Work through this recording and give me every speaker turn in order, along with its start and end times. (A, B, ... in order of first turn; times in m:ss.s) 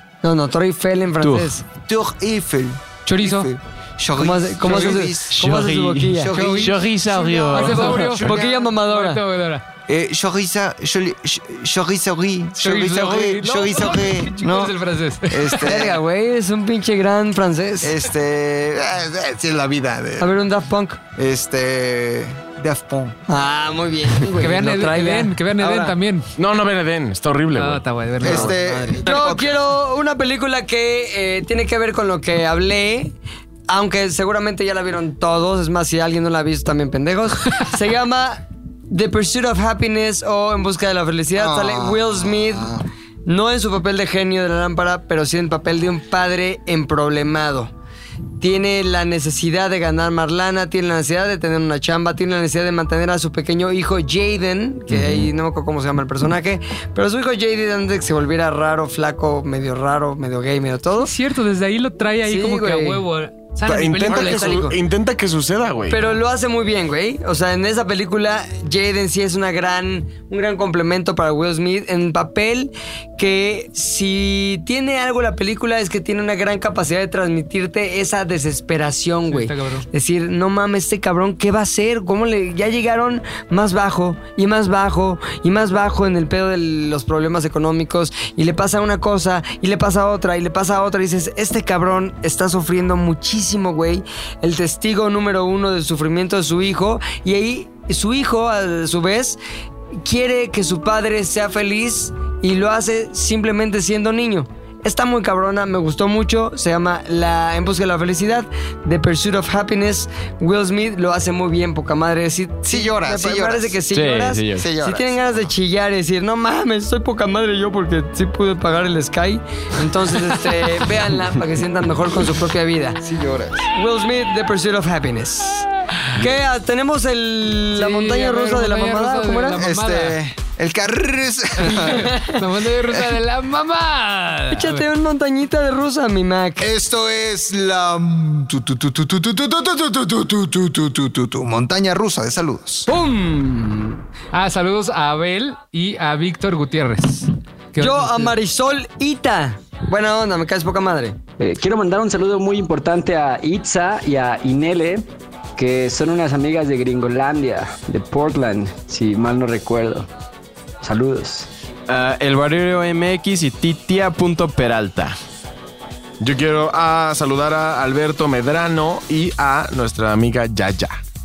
0:00.2-0:01.6 A
0:01.2-0:01.5 B
0:01.9-0:05.5 C
0:03.1-0:03.5 D
0:04.2-0:06.6 A
0:04.7-0:08.2 B
0:06.2-0:08.7 C
0:06.4-0:06.7 D
0:07.5-0:09.6 D
0:08.2-0:09.2 A
0:09.9-0:14.8 C
0:12.6-0:15.7 D
0:15.3-0:16.0 C
0:15.6-0:18.0 A
0:17.8-0:20.4 C
0:20.2-0:21.0 A
0:21.2-0:23.2 C
0:23.3-0:26.0 A
0:24.3-0:26.3 D
0:26.4-0:27.8 E
0:27.6-0:28.6 D
0:28.2-0:29.6 C
0:28.2-0:33.2 A
0:33.7-0:42.7 A
0:41.4-0:42.8 C
0:43.2-0:47.7 A
0:48.4-1:01.1 A
1:01.0-1:04.7 D
1:02.2-1:03.0 A
1:03.6-1:06.0 E
1:04.0-1:04.8 A
1:05.9-1:39.4 A
1:19.3-1:19.9 D
1:40.0-2:03.0 A
1:52.7-1:53.8 C
1:53.9-1:54.7 B
1:54.6-1:55.2 C
2:03.0-2:03.7 C
2:03.7-2:09.6 A
2:07.7-2:10.2 D
2:09.6-2:12.1 C
2:11.6-2:14.9 D
2:11.8-2:12.4 A
2:14.5-2:16.7 A
2:16.6-2:22.9 C
2:22.9-2:24.0 A
2:24.3-2:28.3 D
2:27.8-2:31.2 A
2:31.4-2:40.1 F
2:40.8-2:41.5 F
2:41.9-2:45.2 B
2:46.2-2:51.0 E